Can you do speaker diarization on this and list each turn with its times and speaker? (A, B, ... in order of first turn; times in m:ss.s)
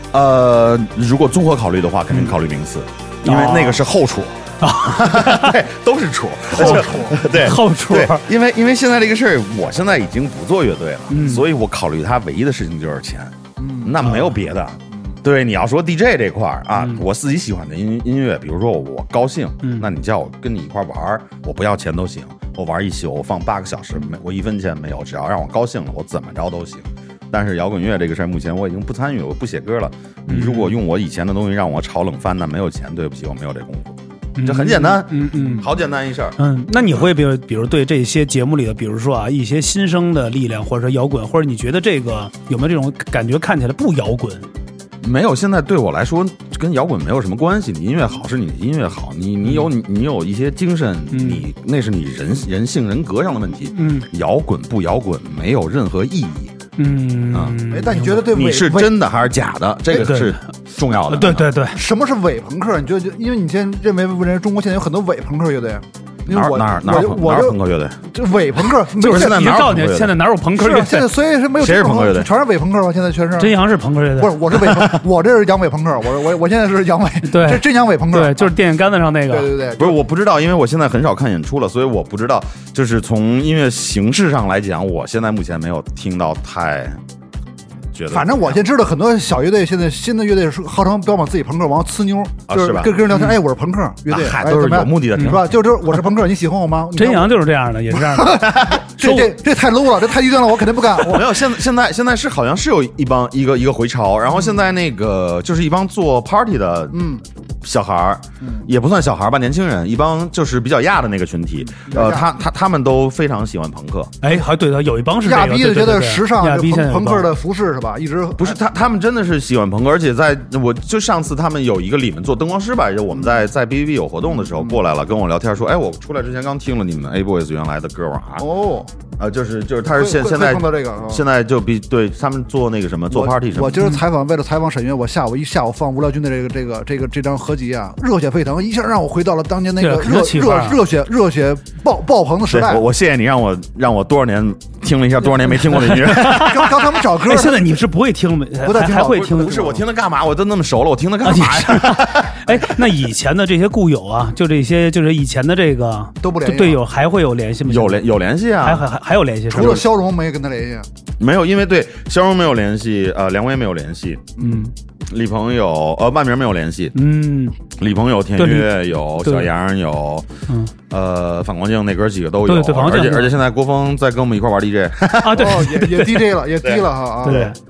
0:00.1-0:36.4 A
0:03.2-0:03.8 B
0:04.6-0:05.6 B
0:06.6-0:08.3 B
0:06.6-0:07.2 C
0:11.1-0:11.4 B
0:13.6-0:14.1 C
0:14.0-0:14.3 B
0:30.3-0:30.8 B
0:34.4-0:35.7 B
0:36.4-0:44.5 B
0:45.0-0:56.6 A
0:51.1-0:51.4 B
0:53.7-0:54.1 B
0:56.8-0:58.3 B
0:57.3-0:57.6 A
0:57.7-0:59.0 C
0:58.2-1:01.5 A
0:59.9-1:00.4 B
1:01.0-1:01.8 B
1:01.7-1:07.6 C
1:06.3-1:08.0 A
1:08.1-1:09.5 C
1:09.0-1:10.2 A
1:09.0-1:11.1 B
1:10.6-1:13.6 C
1:11.6-1:12.3 A
1:13.4-1:14.8 B
1:14.2-1:18.5 C
1:17.3-1:19.5 B
1:19.3-1:20.0 C
1:19.8-1:27.0 A
1:27.9-1:28.6 A
1:28.1-1:37.4 C
1:32.5-1:33.0 A
1:34.1-1:35.5 A
1:35.2-1:35.4 B
1:37.0-1:39.3 B
1:37.9-1:41.3 C
1:41.0-1:47.0 A
1:46.9-1:47.2 C
1:47.6-1:54.1 A
1:48.4-1:48.7 C
1:51.8-1:52.3 C
1:54.2-1:57.3 B
1:55.2-1:58.6 C
1:58.4-2:08.5 A
2:08.4-2:08.9 C
2:09.2-2:13.8 A
2:10.0-2:11.2 C
2:13.1-2:22.8 C
2:19.8-2:20.8 B
2:22.5-2:26.7 A
2:25.7-2:29.7 B
2:26.2-2:27.8 C
2:28.6-2:29.8 C
2:29.0-2:32.7 A
2:31.2-2:38.0 B
2:36.2-2:36.8 C
2:37.6-2:38.9 A
2:38.6-2:39.8 B
2:39.5-2:40.9 C
2:39.5-2:39.8 A
2:41.2-2:44.4 A
2:44.4-2:44.6 C
2:44.4-2:44.7 B
2:45.1-2:47.0 A
2:47.0-2:47.6 B
2:47.8-2:50.3 A
2:48.4-2:49.5 B
2:50.9-2:55.6 A
2:52.5-2:53.4 B
2:55.2-2:56.3 B
2:55.4-2:57.5 C
2:56.6-2:57.5 A
2:57.2-2:57.6 B